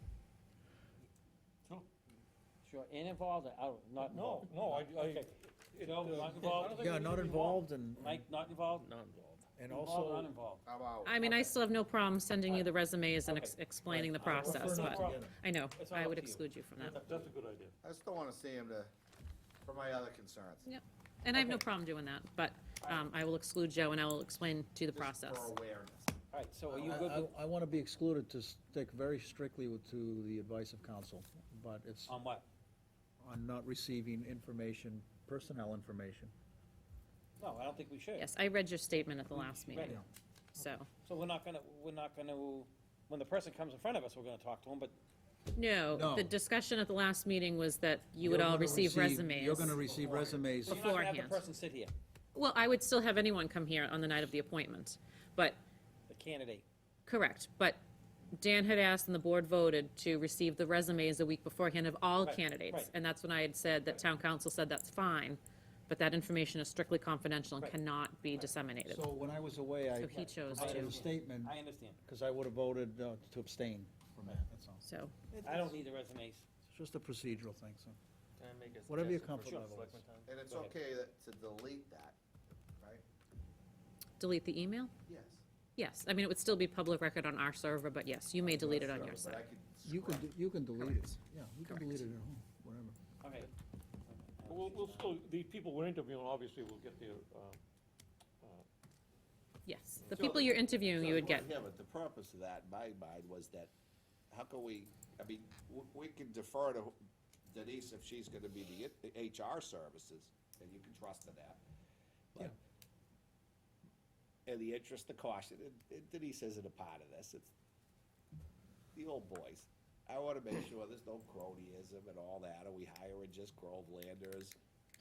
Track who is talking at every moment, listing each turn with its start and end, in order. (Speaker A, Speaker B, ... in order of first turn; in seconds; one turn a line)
Speaker A: 2.6-7.1
Speaker B: 4.0-7.6
Speaker C: 6.7-8.2
Speaker A: 8.0-8.9
Speaker D: 8.8-9.4
Speaker C: 9.6-10.3
Speaker A: 9.7-10.7
Speaker E: 10.7-11.5
Speaker F: 11.0-17.0
Speaker A: 11.2-11.5
Speaker A: 12.5-12.7
Speaker A: 13.2-16.5
Speaker C: 14.2-15.3
Speaker B: 16.8-17.8
Speaker E: 17.8-18.9
Speaker E: 19.6-20.7
Speaker F: 20.6-25.6
Speaker A: 21.3-21.6
Speaker E: 24.9-26.2
Speaker A: 26.3-27.3
Speaker C: 26.7-32.1
Speaker A: 32.1-32.5
Speaker C: 33.2-36.3
Speaker A: 37.4-38.3
Speaker F: 38.2-40.0
Speaker A: 39.3-40.0
Speaker F: 40.5-40.9
Speaker A: 41.0-45.0
Speaker F: 45.5-49.8
Speaker C: 45.9-46.4
Speaker C: 48.2-50.8
Speaker A: 49.6-51.9
Speaker F: 50.7-51.4
Speaker F: 52.4-55.6
Speaker A: 56.1-56.6
Speaker F: 57.1-57.8
Speaker F: 58.3-69.1
Speaker A: 62.2-62.9
Speaker C: 68.9-71.5
Speaker F: 70.0-71.0
Speaker A: 70.5-72.0
Speaker C: 72.0-75.8
Speaker F: 74.8-75.1
Speaker A: 75.4-76.5
Speaker C: 76.7-78.0
Speaker D: 78.4-80.2
Speaker C: 78.9-80.0
Speaker E: 80.3-82.2
Speaker A: 80.5-80.8
Speaker E: 82.8-83.0
Speaker F: 84.2-84.9
Speaker E: 85.1-85.4
Speaker F: 85.8-89.5
Speaker E: 88.4-90.3
Speaker C: 89.8-93.0
Speaker F: 90.8-91.1
Speaker F: 91.7-92.0
Speaker A: 93.2-93.5
Speaker A: 94.0-95.2
Speaker B: 94.5-97.6
Speaker F: 99.7-101.5
Speaker E: 100.1-103.7
Speaker E: 104.3-107.0
Speaker E: 107.5-111.6
Speaker E: 114.5-117.5
Speaker E: 119.0-124.6